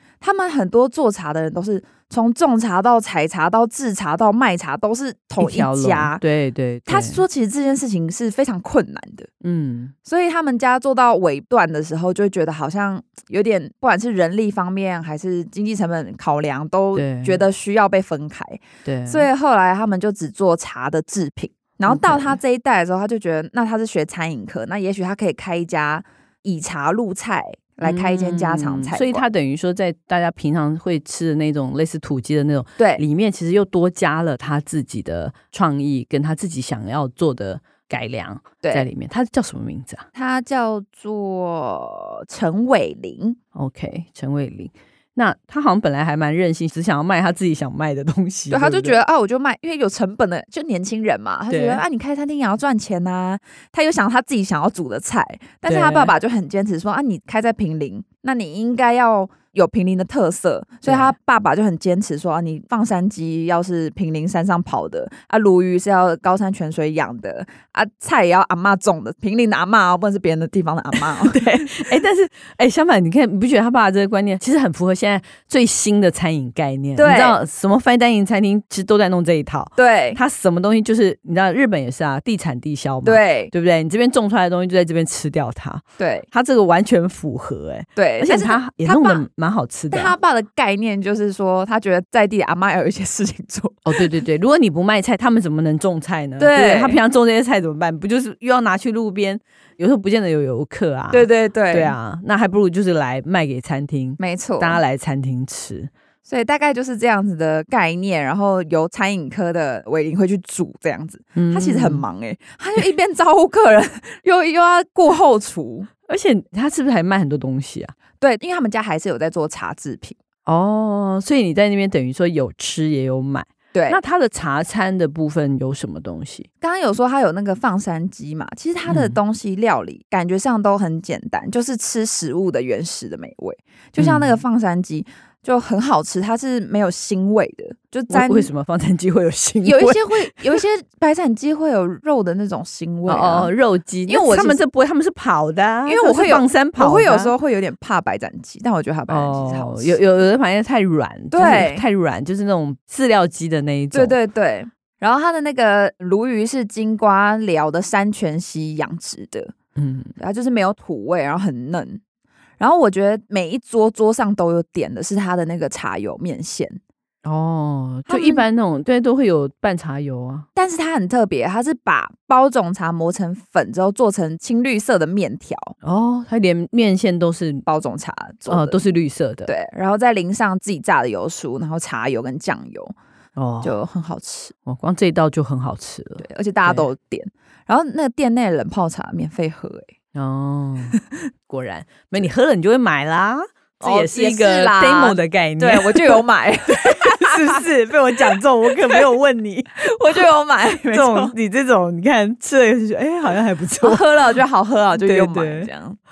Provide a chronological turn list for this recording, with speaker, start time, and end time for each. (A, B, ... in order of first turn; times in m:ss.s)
0:00.2-0:06.2 A
0:05.4-0:07.2 B
0:06.9-0:09.3 A
0:09.4-0:09.9 B
0:10.0-0:29.2 A
0:16.9-0:17.4 B
0:18.8-0:19.3 B
0:21.8-0:22.4 B
0:27.8-0:40.0 B
0:32.8-0:33.0 A
0:40.1-0:43.4 A
0:43.5-0:49.0 B
0:48.5-1:11.8 A
0:51.5-0:51.8 B
0:55.6-0:56.1 B
1:00.8-1:01.1 B
1:11.0-1:30.1 B
1:17.0-1:17.4 A
1:19.8-1:20.2 A
1:23.0-1:23.5 A
1:26.0-1:26.2 A
1:28.0-1:29.2 A
1:29.9-1:34.1 A
1:33.8-1:45.9 B
1:36.4-1:37.0 A
1:41.1-1:41.9 A
1:44.2-1:44.8 A
1:46.2-1:55.9 A
1:51.3-1:52.0 B
1:56.1-1:57.9 B
1:58.2-2:00.2 A
2:00.4-2:06.5 B
2:03.7-2:04.0 A
2:06.6-2:18.5 A
2:08.9-2:09.2 B
2:14.0-2:14.4 B
2:18.1-2:20.6 B
2:19.6-2:23.5 A
2:23.1-2:27.3 B
2:24.1-2:24.6 A
2:25.8-2:30.0 A
2:29.1-2:34.1 B
2:31.3-2:31.8 A
2:33.9-2:39.5 A
2:39.8-2:40.1 B
2:40.2-2:42.0 A
2:42.6-2:46.8 A
2:47.2-2:50.5 B
2:48.1-2:48.4 A
2:50.5-2:55.7 A
2:55.8-2:57.6 B
2:57.6-2:58.8 A
2:58.5-2:59.5 B
2:59.4-3:02.9 A
3:03.4-3:03.7 B
3:03.6-3:04.5 A
3:04.6-3:06.8 B
3:06.2-3:09.9 A
3:10.1-3:19.8 B
3:13.8-3:17.6 A
3:18.2-3:19.0 A
3:19.8-3:21.3 A
3:20.9-3:24.0 B
3:23.8-3:26.0 A
3:25.0-3:25.7 B